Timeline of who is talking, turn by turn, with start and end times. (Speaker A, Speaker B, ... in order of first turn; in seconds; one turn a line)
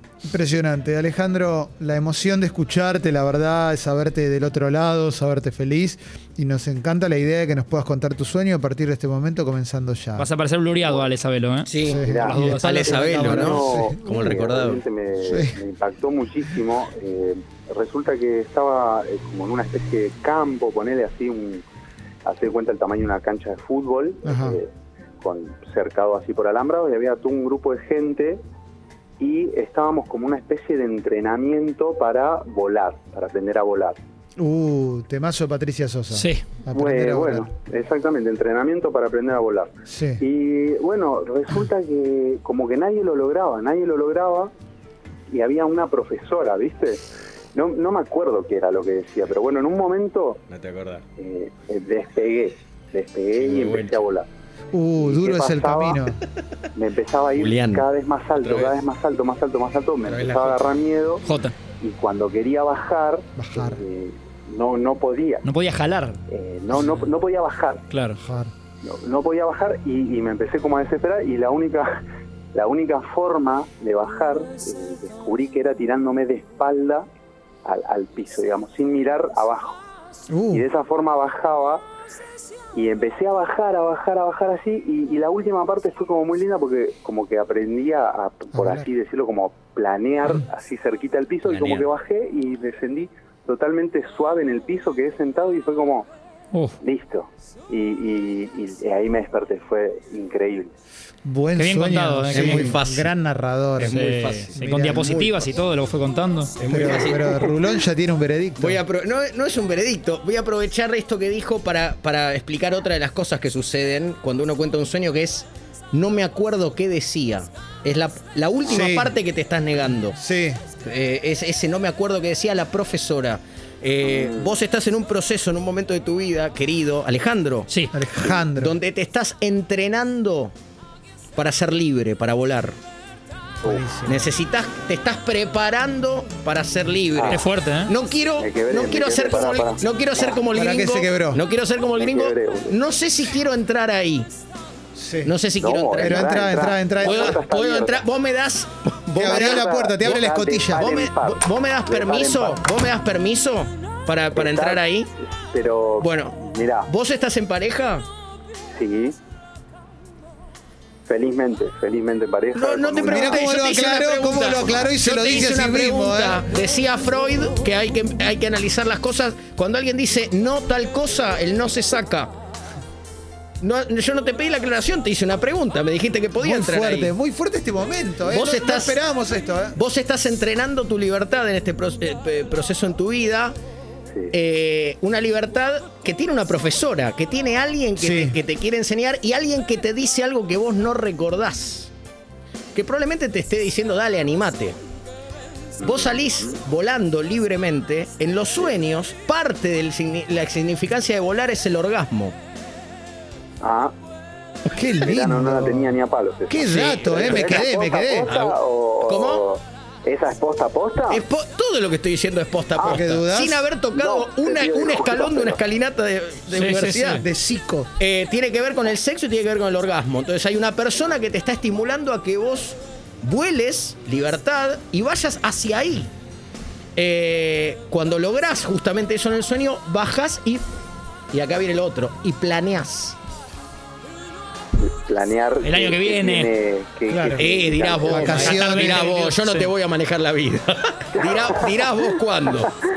Speaker A: 0.2-10.3
Speaker B: 10.2-13.7
Speaker C: 11.7-14.8
Speaker A: 11.8-14.0
Speaker D: 12.0-12.4
Speaker D: 13.0-21.6
Speaker A: 15.2-15.6
Speaker D: 22.2-28.4
Speaker A: 24.2-24.6
Speaker D: 29.2-34.0
Speaker A: 34.4-37.5
Speaker B: 36.1-36.4
Speaker D: 36.7-44.5
Speaker A: 39.9-40.2
Speaker D: 45.3-47.0
Speaker D: 47.5-50.4
Speaker C: 50.5-51.0
Speaker D: 51.2-54.3
Speaker C: 53.4-54.0
Speaker A: 54.7-56.2
Speaker D: 55.0-56.0
Speaker D: 56.7-65.4
Speaker C: 57.4-57.9
Speaker C: 58.4-58.7
Speaker C: 60.0-60.6
Speaker B: 61.2-61.5
Speaker A: 63.4-63.8
Speaker B: 65.4-66.2
Speaker D: 66.3-67.8
Speaker B: 67.9-68.2
Speaker A: 68.2-68.5
Speaker D: 68.8-72.0
Speaker D: 72.5-77.1
Speaker D: 77.6-79.8
Speaker A: 80.3-80.7
Speaker D: 80.5-81.8
Speaker D: 82.7-96.1
Speaker A: 88.5-88.9
Speaker C: 91.4-91.9
Speaker D: 96.8-100.7
Speaker A: 101.2-105.2
Speaker B: 101.5-102.8
Speaker C: 102.3-103.1
Speaker C: 103.8-105.5
Speaker B: 103.9-106.5
Speaker C: 106.6-107.5
Speaker A: 106.6-108.8
Speaker C: 108.6-120.2
Speaker A: 118.7-119.2
Speaker A: 120.1-120.6
Speaker C: 120.8-127.7
Speaker D: 124.1-124.5
Speaker A: 127.9-128.8
Speaker C: 128.2-130.5
Speaker C: 131.3-132.8
Speaker A: 133.6-134.3
Speaker C: 134.1-144.3
Speaker B: 137.3-137.9
Speaker D: 138.4-140.4
Speaker A: 140.5-141.4
Speaker D: 142.0-142.8
Speaker A: 144.9-145.3
Speaker C: 145.2-155.1
Speaker D: 145.6-148.0
Speaker A: 146.0-147.4
Speaker A: 149.2-150.9
Speaker D: 149.2-152.6
Speaker D: 154.3-156.9
Speaker C: 156.0-158.1
Speaker D: 158.7-159.2
Speaker D: 161.1-163.5
Speaker C: 162.5-172.3
Speaker A: 163.0-166.5
Speaker C: 173.6-177.1
Speaker A: 176.4-179.8
Speaker C: 178.3-179.0
Speaker C: 179.7-183.6
Speaker C: 184.3-191.9
Speaker A: 188.0-188.4
Speaker C: 192.7-194.8
Speaker D: 195.8-196.6
Speaker C: 195.8-202.3
Speaker D: 203.6-203.9
Speaker A: 204.7-205.9
Speaker D: 205.0-211.2
Speaker A: 206.5-208.3
Speaker C: 206.7-207.7
Speaker C: 208.3-209.4
Speaker C: 211.1-217.2
Speaker D: 212.8-213.1
Speaker A: 212.8-213.7
Speaker D: 213.9-215.6
Speaker B: 216.5-217.2
Speaker A: 217.0-217.9
Speaker C: 218.0-226.1
Speaker C: 226.9-230.6
Speaker C: 231.3-233.2
Speaker D: 234.8-238.6
Speaker B: 235.6-236.5
Speaker A: 237.1-237.5
Speaker C: 237.3-242.7
Speaker A: 238.0-239.1
Speaker B: 238.3-239.7
Speaker D: 241.2-242.0